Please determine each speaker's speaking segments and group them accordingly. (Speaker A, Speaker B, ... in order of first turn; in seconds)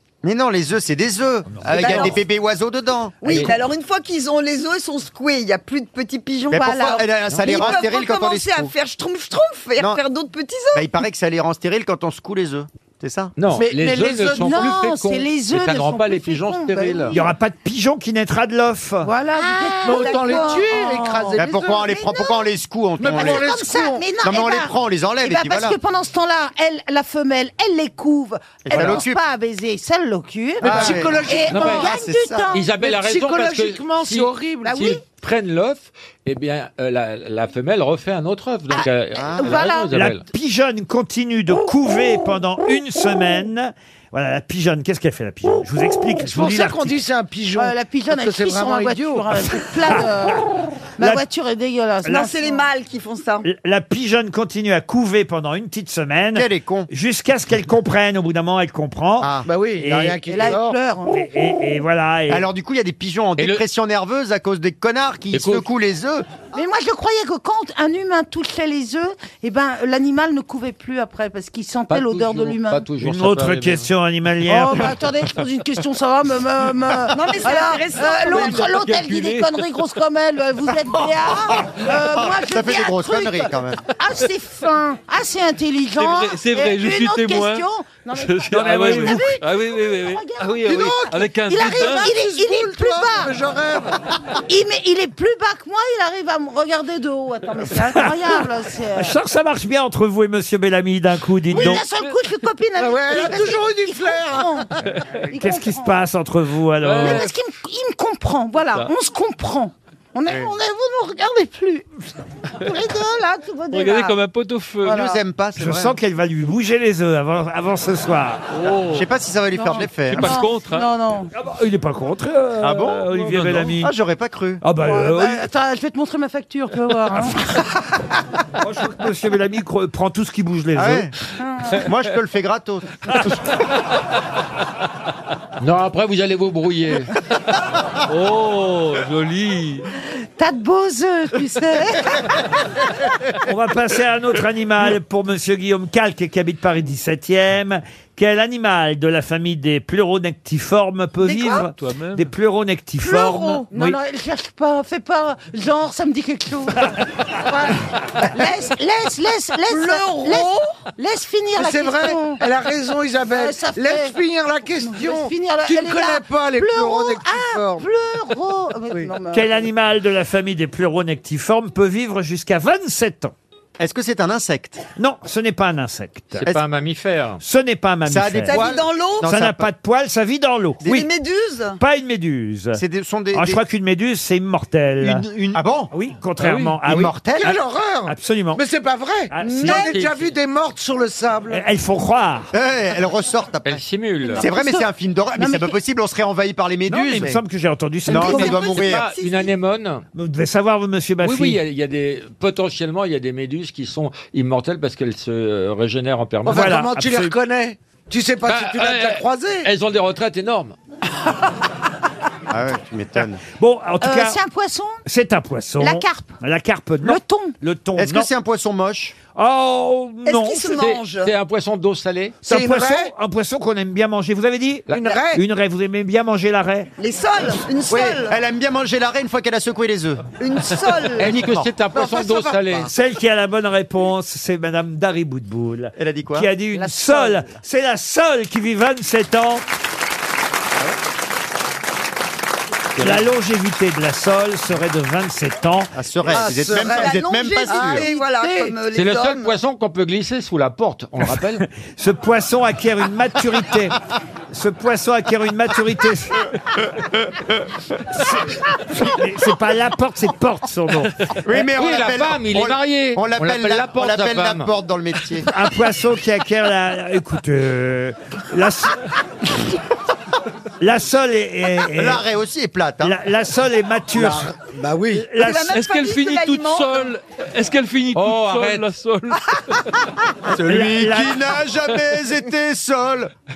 Speaker A: 0.2-3.5, 6.5-8.7, 10.7-13.3, 21.4-23.5, 24.2-25.8, 28.6-29.2, 30.6-32.5, 39.2-39.5, 56.4-56.9, 62.3-66.2, 81.5-83.8, 114.9-115.9, 118.9-120.3, 122.6-123.1, 123.7-124.6, 130.7-131.1, 131.8-133.3, 173.8-174.8, 178.1-179.7, 182.8-183.6, 185.0-185.9, 186.8-187.6, 192.5-193.8, 194.4-197.4, 198.1-199.1, 212.5-213.4, 218.0-219.2, 227.9-230.2, 231.2-231.7, 235.9-236.5, 245.9-248.1, 261.4-265.5, 271.9-273.1, 280.6-283.3
Speaker B: 1.5-2.2, 17.1-19.1, 39.9-47.0, 53.4-60.5, 61.1-62.5, 73.0-74.9, 88.5-89.3, 99.0-101.8, 105.3-107.3, 115.6-118.5, 121.3-123.9, 124.6-125.4, 128.6-131.1, 143.4-154.0, 169.3-173.3, 175.0-176.5, 177.4-178.7, 179.2-181.1, 181.8-182.8, 183.3-188.6, 189.3-190.0, 191.5-192.5, 196.9-198.7, 200.1-201.6, 206.4-207.3, 213.6-214.4, 215.1-218.3, 219.3-220.9, 222.4-226.9, 232.9-239.6, 243.0-246.5, 251.2-254.0, 254.5-256.5, 258.1-261.1, 265.5-269.0, 270.8-272.2, 273.0-274.5, 275.1-275.6, 280.6-281.5
Speaker C: 1.7-2.2, 3.2-10.9, 19.9-20.6, 52.1-53.4, 77.1-78.7, 159.7-160.5, 178.4-179.3, 180.8-181.8, 189.4-189.9, 198.2-199.5, 220.2-221.3, 227.0-228.4, 230.4-231.3, 246.3-249.5, 275.4-277.1
Speaker D: 3.2-3.5, 7.3-7.6, 13.4-17.1, 31.5-31.9, 32.5-40.2, 65.3-65.7, 71.9-73.9, 135.6-137.1, 176.3-177.4, 189.6-190.3, 193.6-194.4, 198.3-200.0, 201.2-206.8, 208.4-210.8, 220.7-222.4, 231.2-232.9, 248.9-251.6, 261.5-264.7, 278.1-278.9
Speaker E: 6.6-7.8, 14.3-17.3, 19.0-22.5, 23.1-32.7, 34.6-35.0, 38.7-39.9, 47.5-50.4, 51.0-52.6, 60.2-61.2, 66.5-72.9, 74.4-93.4, 94.5-99.2, 101.5-104.7, 105.3-106.0, 107.0-112.0, 112.6-114.2, 114.8-115.2, 119.5-121.3, 124.7-127.6, 131.4-131.9, 140.4-142.4, 151.2-151.7, 153.0-156.9, 157.5-162.4, 163.3-164.2, 164.8-169.7, 194.3-195.8, 198.1-198.5, 214.0-215.0, 215.8-216.4, 217.0-217.6, 236.7-237.6, 247.7-248.8
Speaker F: 13.6-14.7, 19.8-21.8, 23.0-24.1, 30.6-31.9, 32.7-34.8, 46.2-49.3, 59.4-60.8, 90.6-94.0, 102.8-104.7, 161.6-167.9, 187.3-191.6, 206.4-209.7, 222.4-223.1, 224.9-225.4, 246.3-247.1, 274.1-275.3
Speaker G: 78.4-79.7, 85.9-92.1, 106.8-107.2, 113.7-115.0, 118.5-119.0, 120.0-120.9, 123.1-123.7, 138.1-139.8, 151.7-152.3, 186.4-186.7, 275.6-279.5